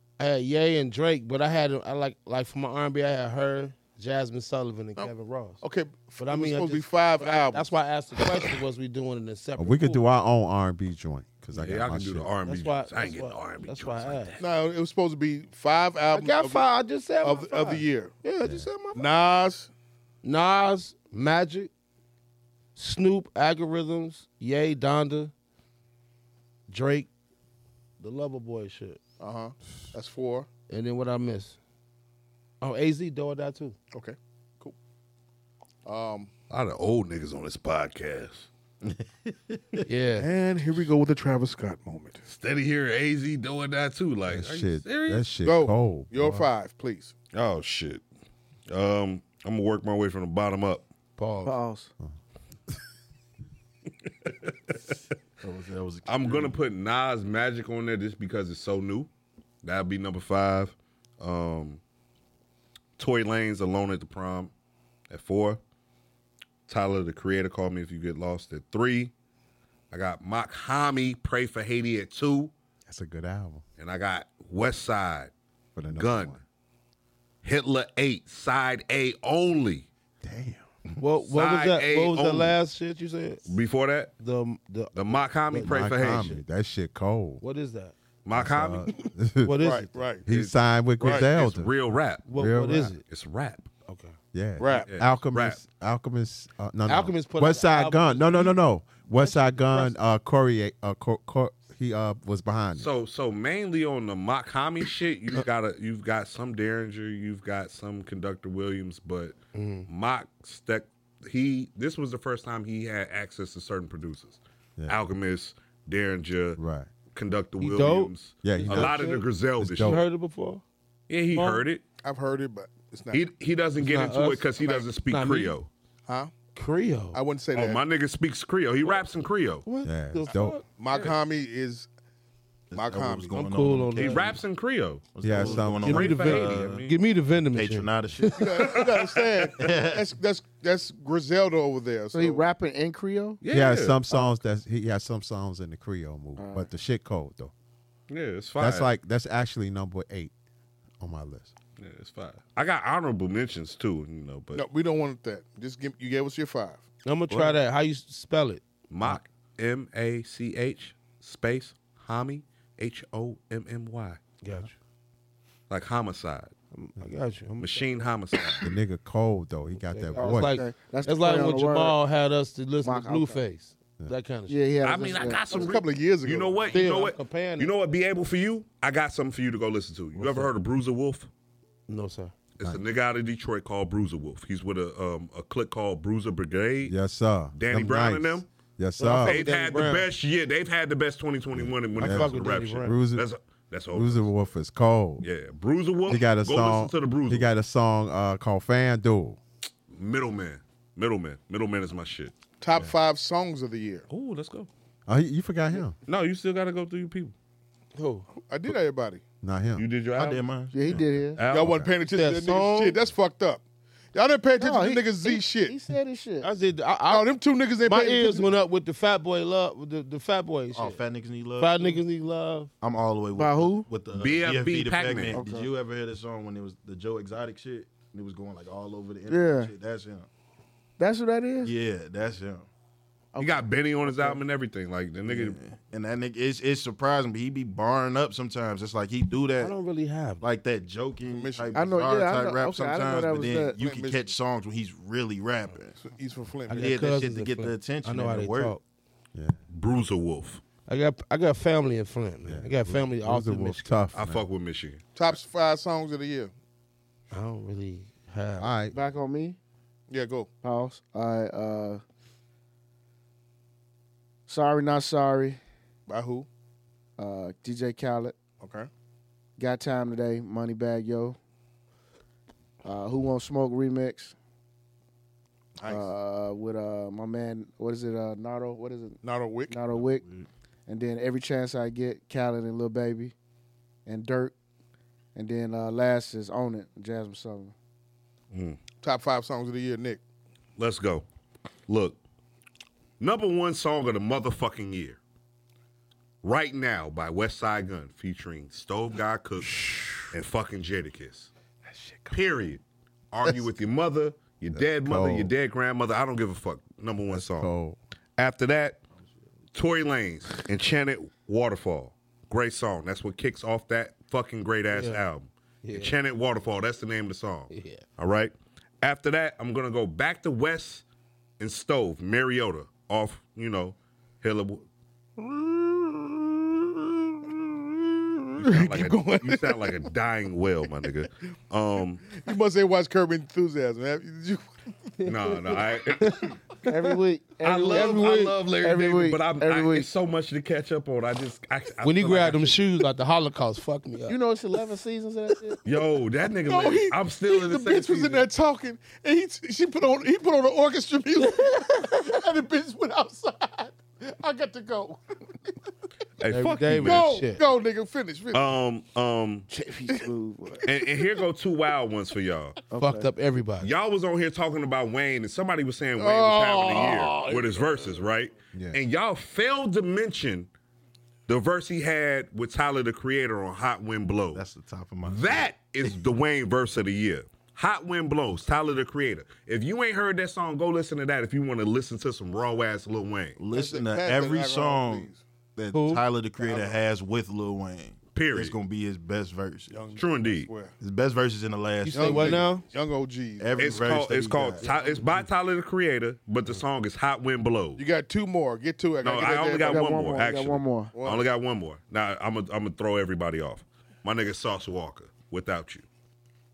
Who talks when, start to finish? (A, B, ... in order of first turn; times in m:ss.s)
0:00.2-0:05.6 A
0:05.0-0:07.7 B
0:06.2-0:10.0 A
0:09.6-0:12.3 C
0:11.5-0:14.4 D
0:12.4-0:14.4 A
0:14.4-0:16.7 B
0:16.1-0:19.1 A
0:17.2-0:18.1 B
0:18.4-0:18.7 C
0:18.9-0:19.7 B
0:20.2-0:21.7 A
0:22.8-0:25.3 A
0:26.7-0:27.1 A
0:28.0-0:29.0 A
0:29.2-0:30.5 B
0:30.7-0:31.6 A
0:32.6-0:33.7 A
0:33.9-0:34.7 B
0:35.8-0:36.3 B
0:36.5-0:38.5 D
0:38.8-0:39.8 E
0:39.8-0:40.3 A
0:40.2-0:42.2 B
0:42.2-0:45.2 D
0:44.3-0:46.5 C
0:45.4-0:47.1 B
0:47.3-0:48.0 D
0:48.7-0:50.8 D
0:51.2-0:51.5 A
0:51.4-0:51.9 F
0:54.2-0:54.5 D
0:55.4-0:56.6 E
0:56.0-0:59.1 D
0:59.6-1:01.8 D
1:03.0-1:04.5 D
1:05.1-1:05.6 D
1:06.7-1:09.1 D
1:09.9-1:12.5 D
1:12.8-1:13.6 C
1:13.8-1:15.3 D
1:15.7-1:16.4 C
1:15.9-1:16.4 D
1:17.4-1:19.9 D
1:20.2-1:20.6 C
1:21.0-1:23.5 A
1:21.2-1:22.5 D
1:23.4-1:24.1 D
1:24.2-1:26.4 A
1:24.9-1:26.4 D
1:25.6-1:27.4 C
1:27.4-1:27.9 A
1:28.2-1:28.9 D
1:28.3-1:29.6 C
1:29.4-1:30.0 A
1:29.6-1:30.2 B
1:30.2-1:31.7 C
1:30.3-1:32.3 D
1:31.0-1:31.3 B
1:32.3-1:33.0 A
1:32.3-1:33.0 C
1:33.0-1:33.7 D
1:33.8-1:34.2 A
1:34.3-1:42.9 C
1:34.6-1:34.9 B
1:34.7-1:35.6 D
1:36.9-1:39.9 A
1:42.8-1:56.6 D
1:49.5-1:49.9 A
1:56.6-1:56.9 C
1:57.1-2:00.0 D
1:57.6-1:59.2 A
1:58.4-2:00.0 C
1:59.8-2:00.6 A
2:01.1-2:01.8 D
2:01.3-2:01.6 A
2:02.0-2:03.2 B
2:03.1-2:05.7 D
2:03.8-2:05.6 A
2:04.6-2:04.9 B
2:06.1-2:06.3 B
2:06.5-2:07.2 A
2:07.1-2:07.8 B
2:07.5-2:09.6 D
2:09.6-2:10.6 A
2:09.8-2:10.6 C
2:10.8-2:11.9 B
2:12.7-2:14.3 E
2:12.7-2:13.4 B
2:13.3-2:14.4 A
2:14.0-2:17.0 D
2:15.1-2:16.8 E
2:15.2-2:16.2 C
2:15.7-2:18.6 A
2:17.5-2:18.4 E
2:18.4-2:22.4 B
2:18.5-2:19.5 D
2:19.6-2:20.1 E
2:22.1-2:23.4 F
2:23.4-2:24.0 D
2:23.5-2:27.5 C
2:26.4-2:26.7 F
2:28.1-2:28.9 D
2:28.6-2:30.3 C
2:31.0-2:31.5 C
2:31.8-2:34.6 D
2:34.5-2:36.8 B
2:37.0-2:38.6 A
2:38.9-2:44.2 D
2:44.4-2:44.7 A
2:45.7-2:46.5 D
2:46.7-2:48.0 A
2:47.6-2:48.7 D
2:48.6-2:50.6 C
2:49.8-2:54.6 A
2:50.2-2:52.0 F
2:52.8-2:53.4 F
2:54.5-2:55.6 F
2:54.8-3:01.3 D
2:55.5-2:56.9 B
2:56.7-2:57.7 A
3:00.2-3:00.5 A
3:01.9-3:02.3 A
3:02.6-3:07.0 D
3:06.8-3:09.4 C
3:07.5-3:08.4 D
3:09.0-3:10.1 A
3:09.2-3:14.3 D
3:11.5-3:13.3 C
3:12.0-3:13.0 A
3:13.9-3:15.2 C
3:15.2-3:17.5 D
3:16.0-3:19.4 C
3:19.9-3:22.3 D
3:22.6-3:24.0 B
3:24.1-3:24.7 D
3:25.1-3:25.9 C
3:26.0-3:27.3 D
3:27.9-3:28.3 A
3:28.4-3:29.2 B
3:29.4-3:29.8 C
3:29.8-3:31.9 D
3:30.2-3:31.1 E
3:30.7-3:31.4 F
3:31.5-3:33.6 B
3:32.0-3:33.0 A
3:34.1-3:35.7 B
3:34.6-3:36.5 F
3:36.4-3:37.3 A
3:37.1-3:38.5 B
3:37.8-3:41.0 A
3:40.7-3:42.0 E
3:41.6-3:42.7 A
3:42.8-3:50.3 E
3:43.4-3:43.9 F
3:44.1-3:45.4 D
3:45.3-3:45.7 F
3:49.3-3:49.7 F
3:51.0-3:51.7 F
3:51.6-3:52.7 E
3:53.3-3:54.3 F
3:53.4-3:55.6 D
3:55.2-3:59.8 E
3:59.6-4:00.4 A
4:00.4-4:06.0 E
4:01.3-4:01.9 B
4:01.7-4:03.8 F
4:03.7-4:04.4 B
4:06.0-4:06.9 B
4:06.7-4:08.8 A
4:06.7-4:08.7 E
4:09.3-4:09.6 C
4:09.7-4:10.6 D
4:10.9-4:14.0 A
4:12.4-4:14.5 C
4:14.1-4:15.0 D
4:15.2-4:16.5 B
4:17.3-4:18.7 A
4:18.6-4:19.0 C
4:18.9-4:19.6 F
4:20.1-4:20.5 B
4:20.6-4:22.0 F
4:24.5-4:25.6 F
4:26.1-4:26.5 B
4:27.2-4:28.3 F
4:28.6-4:28.9 B
4:29.6-4:31.4 F
4:32.8-4:34.3 F
4:35.8-4:36.1 B
4:35.9-4:40.2 F
4:39.2-4:39.8 B
4:39.9-4:40.5 E
4:40.9-4:43.3 F
4:44.0-4:44.5 F
4:45.3-4:47.7 F
4:48.5-4:48.8 D
4:49.0-4:50.2 B
4:50.8-4:51.2 D
4:51.9-4:52.2 D
4:53.2-4:55.2 D
4:56.4-5:01.5 D
4:59.6-5:00.3 C
5:01.9-5:02.4 C
5:02.3-5:07.7 D
5:04.7-5:05.5 C
5:07.3-5:08.0 C
5:08.4-5:09.0 D
5:09.7-5:21.0 D
5:14.9-5:15.2 A
5:15.8-5:16.2 A
5:17.7-5:18.0 A
5:21.6-5:24.8 D
5:25.5-5:26.2 B
5:27.5-5:30.0 B
5:28.6-5:32.2 D
5:32.3-5:34.6 B
5:35.2-5:36.5 D
5:36.8-5:40.1 F
5:37.6-5:42.8 D
5:37.9-5:38.5 A
5:42.0-5:44.4 A
5:44.3-5:45.8 F
5:45.8-5:48.4 D
5:46.6-5:55.2 B
5:56.4-5:57.3 D
5:56.5-5:57.6 A
5:57.0-5:58.6 B
5:58.5-5:59.7 D
5:59.7-6:00.8 F
6:00.1-6:01.0 B
6:00.8-6:02.8 D
6:02.9-6:03.3 F
6:03.0-6:03.9 A
6:03.8-6:10.7 D
6:06.2-6:07.9 B
6:08.7-6:09.0 C
6:11.5-6:14.6 D
6:14.5-6:16.2 E
6:15.2-6:23.6 D
6:23.6-6:30.0 E
6:23.7-6:25.4 B
6:25.9-6:26.2 A
6:26.6-6:27.0 B
6:28.3-6:28.8 D
6:29.9-6:30.9 B
6:30.2-6:30.7 D
6:31.0-6:32.7 E
6:32.0-6:32.8 A
6:32.1-6:33.9 B
6:33.6-6:34.9 E
6:33.8-6:38.0 D
6:34.8-6:35.3 B
6:38.0-6:40.1 B
6:39.2-6:46.0 D
6:39.8-6:41.1 F
6:41.1-6:41.5 B